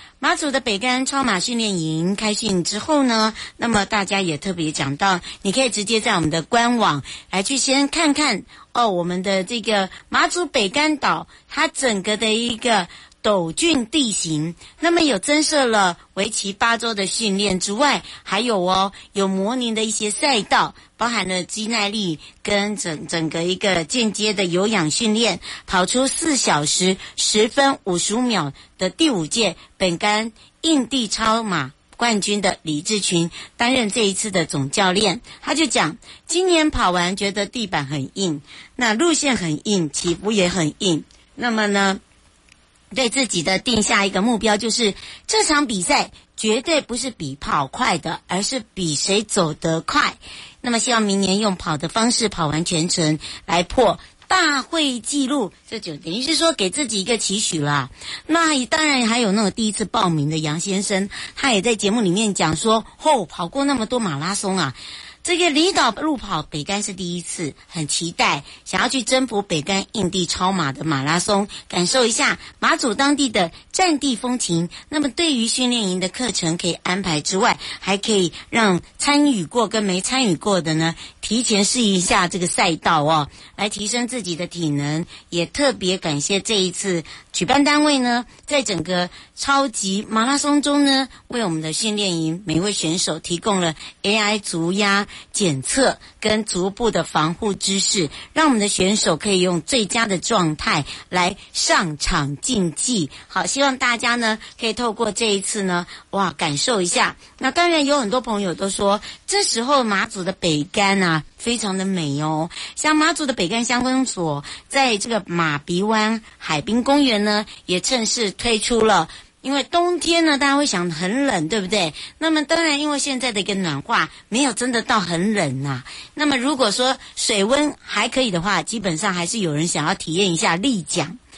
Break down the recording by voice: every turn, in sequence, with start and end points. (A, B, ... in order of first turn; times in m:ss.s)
0:00.2-0:42.0 A
0:42.9-2:11.2 A